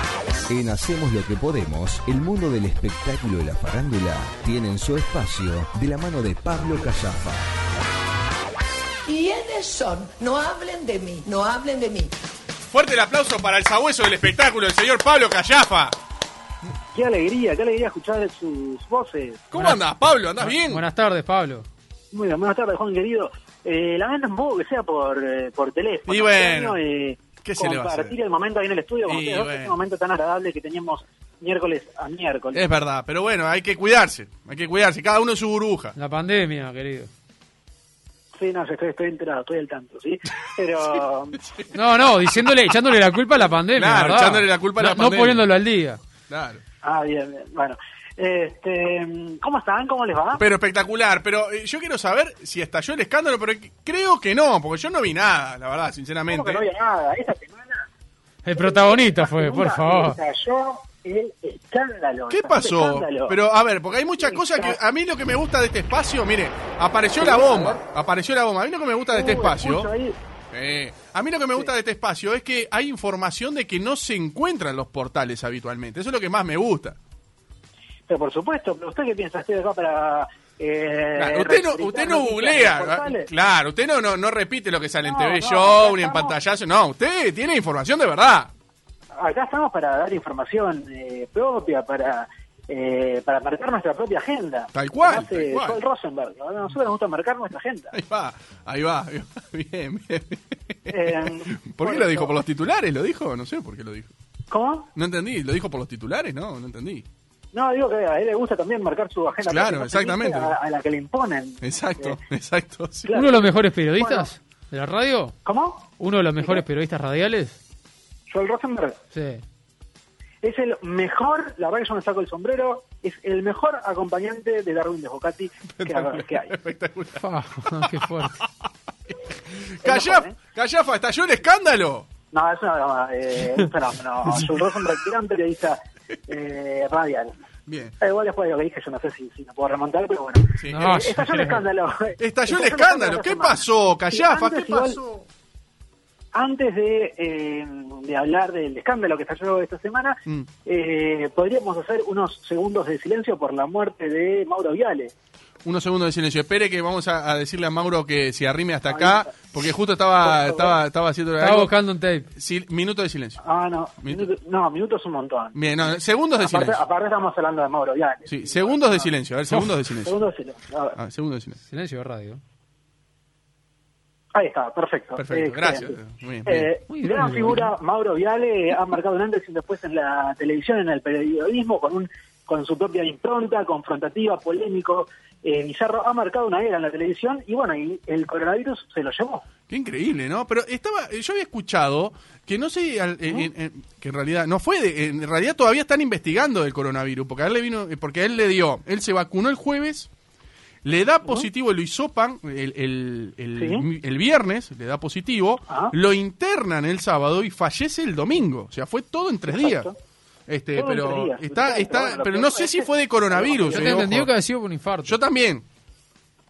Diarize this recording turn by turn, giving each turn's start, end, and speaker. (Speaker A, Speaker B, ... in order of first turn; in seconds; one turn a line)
Speaker A: 0.5-7.5
Speaker B: 9.1-12.1
Speaker C: 12.6-15.9
Speaker D: 16.9-19.5
Speaker C: 19.5-20.8
Speaker E: 20.4-21.6
Speaker D: 22.1-32.6
Speaker C: 26.1-26.8
Speaker C: 27.4-28.1
Speaker C: 29.1-29.7
Speaker C: 32.5-35.9
Speaker E: 35.9-37.1
Speaker D: 38.4-41.4
Speaker E: 41.7-46.0
Speaker C: 43.7-45.5
Speaker C: 46.3-46.6
Speaker D: 46.8-50.4
Speaker C: 50.4-56.6
Speaker D: 56.3-57.9
Speaker E: 58.4-60.2
Speaker D: 58.5-63.4
Speaker C: 62.3-69.9
Speaker D: 64.2-64.8
Speaker D: 67.2-67.8
Speaker D: 69.1-70.2
Speaker C: 70.5-77.0
Speaker D: 78.1-83.3
Speaker C: 81.2-88.5
Speaker D: 85.0-86.3
Speaker D: 89.1-97.9
Speaker C: 94.7-95.8
Speaker C: 97.9-104.1
Speaker D: 100.9-102.3
Speaker D: 104.5-104.9
Speaker C: 104.9-107.0
Speaker D: 107.5-112.2
Speaker C: 109.4-110.5
Speaker C: 111.6-113.1
Speaker D: 113.0-114.3
Speaker E: 113.1-115.4
Speaker D: 115.4-116.6
Speaker E: 116.0-117.6
Speaker D: 118.3-119.0
Speaker E: 119.1-119.4
Speaker D: 120.4-126.5
Speaker C: 125.8-127.9
Speaker E: 127.2-128.4
Speaker C: 129.6-132.1
Speaker D: 129.8-130.3
Speaker D: 132.3-137.3
Speaker C: 137.7-137.9
Speaker D: 138.0-145.0
Speaker C: 140.6-140.9
Speaker E: 140.7-141.6
Speaker C: 142.2-145.2
Speaker D: 146.3-155.1
Speaker C: 155.6-161.7
Speaker D: 158.9-159.3
Speaker D: 160.2-160.8
Speaker E: 161.4-162.2
Speaker C: 162.3-163.4
Speaker D: 163.4-165.6
Speaker C: 164.0-164.3
Speaker C: 165.5-166.8
Speaker D: 166.4-169.1
Speaker C: 168.3-170.2
Speaker D: 170.0-171.0
Speaker C: 170.9-171.6
Speaker E: 171.6-172.4
Speaker D: 174.3-189.4
Speaker C: 175.2-176.7
Speaker E: 176.9-177.7
Speaker C: 189.7-200.1
Speaker C: 200.8-209.9
Speaker D: 203.5-203.8
Speaker D: 205.7-205.9
Speaker D: 209.5-209.9
Speaker C: 210.5-214.3
Speaker D: 210.8-214.1
Speaker E: 213.7-215.2
Speaker C: 215.0-215.6